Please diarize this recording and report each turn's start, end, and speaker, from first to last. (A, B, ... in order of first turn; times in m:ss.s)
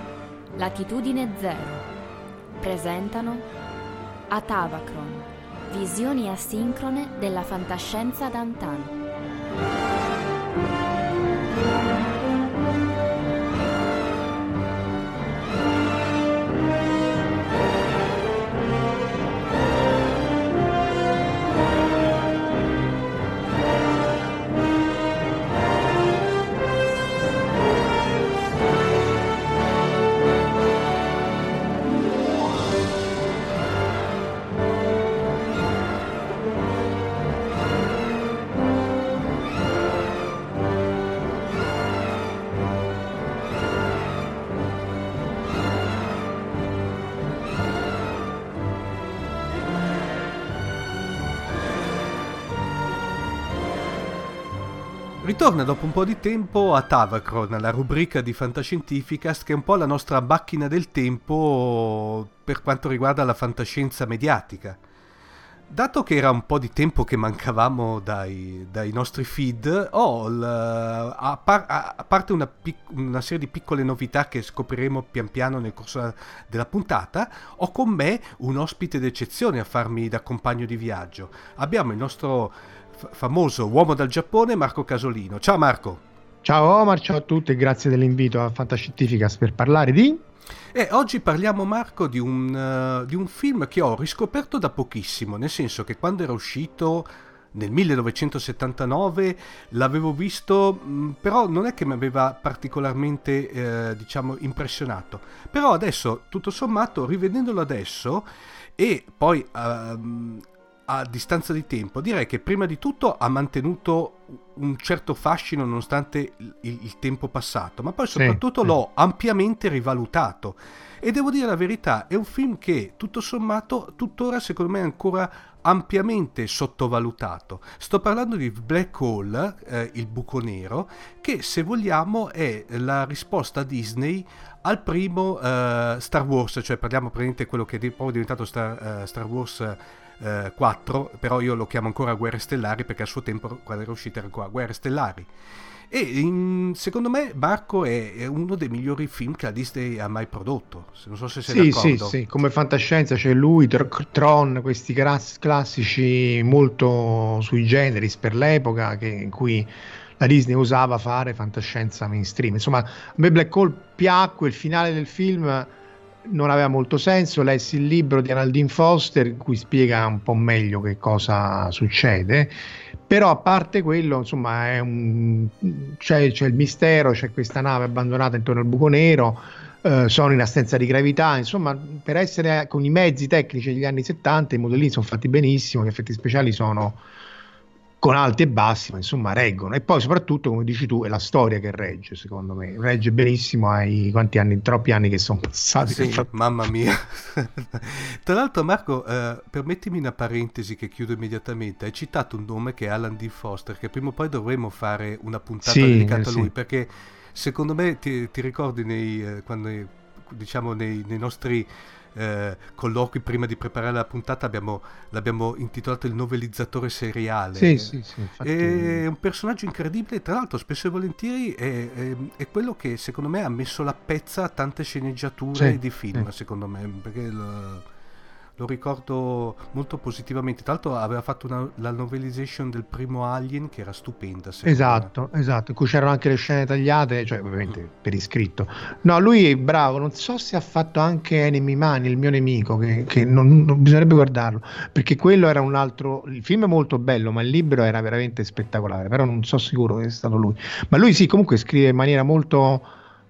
0:00.6-0:01.9 A
0:02.6-0:03.5 A
0:04.3-0:09.0 A
0:55.2-1:04.8 B
1:05.7-1:26.0 B
1:26.4-1:30.2 C
1:30.7-1:48.3 B
1:48.8-2:25.3 B
1:58.1-1:58.7 C
2:25.9-2:32.2 B
2:31.5-2:45.7 C
2:46.2-3:07.0 C
3:08.0-3:16.3 C
3:15.8-3:47.8 B
3:25.6-3:26.5 C
3:37.6-3:39.0 C
3:45.5-3:46.3 C
3:48.6-3:55.1 B
3:54.6-4:12.9 C